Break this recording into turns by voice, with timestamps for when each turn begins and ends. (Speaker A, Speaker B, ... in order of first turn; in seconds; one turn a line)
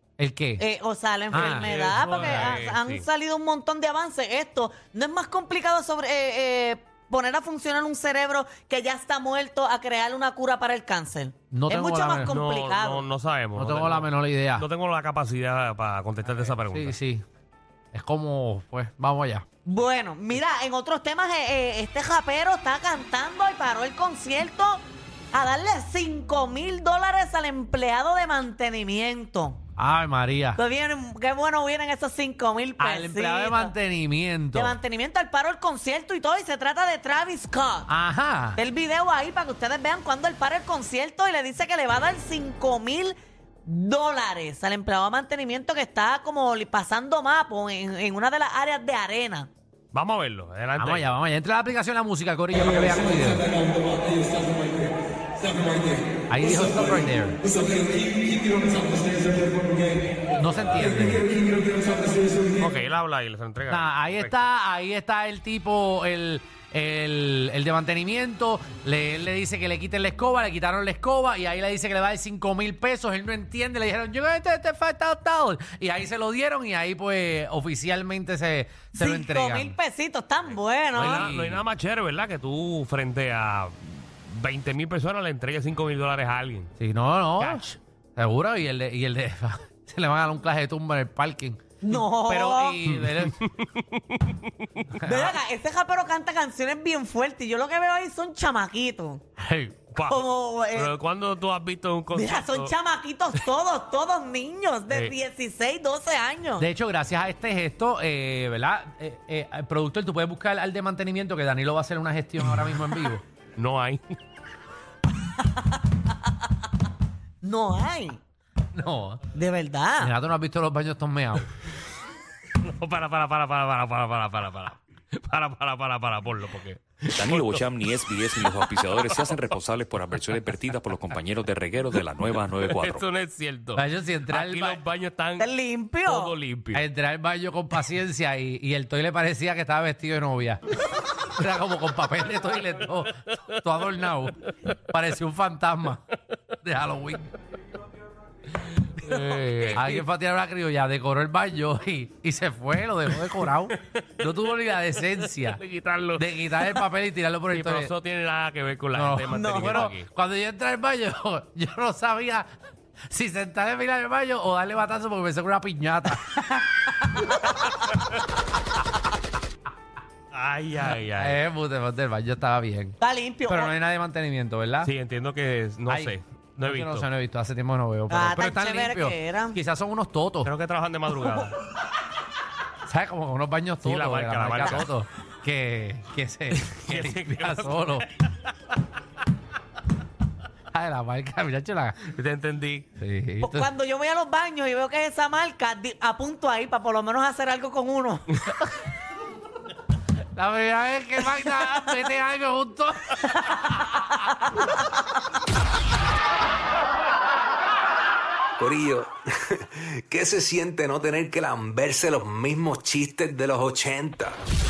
Speaker A: 0.2-0.6
Speaker B: 0.6-13.0
Speaker A: 1.3-2.7
Speaker C: 1.3-3.1
Speaker A: 11.5-12.3
Speaker C: 12.2-17.0
Speaker A: 13.6-14.7
Speaker A: 16.3-17.2
Speaker A: 17.9-19.5
Speaker B: 19.6-29.6
Speaker A: 29.8-30.6
Speaker B: 30.6-33.7
Speaker A: 32.8-34.8
Speaker B: 34.5-37.9
Speaker A: 37.9-38.6
Speaker B: 38.6-49.5
Speaker C: 49.9-51.0
Speaker A: 50.8-53.5
Speaker A: 56.3-57.4
Speaker C: 58.7-59.0
Speaker A: 60.4-61.3
Speaker C: 62.5-64.4
Speaker A: 63.7-79.8
Speaker B: 79.0-81.3
Speaker C: 80.9-86.7
Speaker A: 81.0-81.6
Speaker A: 86.8-93.4
Speaker C: 87.4-87.7
Speaker B: 91.8-92.8
Speaker C: 92.9-94.9
Speaker A: 94.9-95.4
Speaker B: 95.0-99.2
Speaker A: 99.4-99.8
Speaker C: 99.9-100.2
Speaker B: 100.1-100.9
Speaker C: 100.7-102.7
Speaker B: 102.1-106.7
Speaker C: 104.9-105.1
Speaker A: 106.6-113.2
Speaker C: 113.6-114.0
Speaker B: 115.4-115.8
Speaker B: 117.4-118.2
Speaker A: 118.7-119.3
Speaker B: 119.3-120.1
Speaker A: 120.0-121.5
Speaker C: 122.6-127.6
Speaker D: 127.1-133.1
Speaker C: 128.4-129.3
Speaker C: 132.7-135.5
Speaker A: 133.8-134.8
Speaker B: 135.4-136.3
Speaker C: 136.1-136.8
Speaker A: 136.7-140.6
Speaker A: 141.4-146.0
Speaker A: 146.6-147.3
Speaker C: 149.0-150.0
Speaker A: 149.7-155.6
Speaker C: 155.0-156.8
Speaker A: 156.2-157.9
Speaker C: 157.5-160.1
Speaker A: 158.9-162.5
Speaker A: 163.1-166.4
Speaker C: 167.7-168.0
Speaker C: 170.3-171.4
Speaker A: 171.2-174.9
Speaker B: 173.0-173.7
Speaker C: 174.8-177.1
Speaker A: 175.9-176.1
Speaker A: 176.7-180.5
Speaker B: 178.1-179.6
Speaker C: 180.4-181.6
Speaker A: 182.9-188.1
Speaker C: 183.8-184.9
Speaker C: 186.5-188.0
Speaker A: 190.7-192.1
Speaker C: 192.1-192.9
Speaker A: 193.0-193.7
Speaker B: 193.4-198.4
Speaker A: 200.3-203.6
Speaker B: 203.4-203.8
Speaker E: 208.6-214.4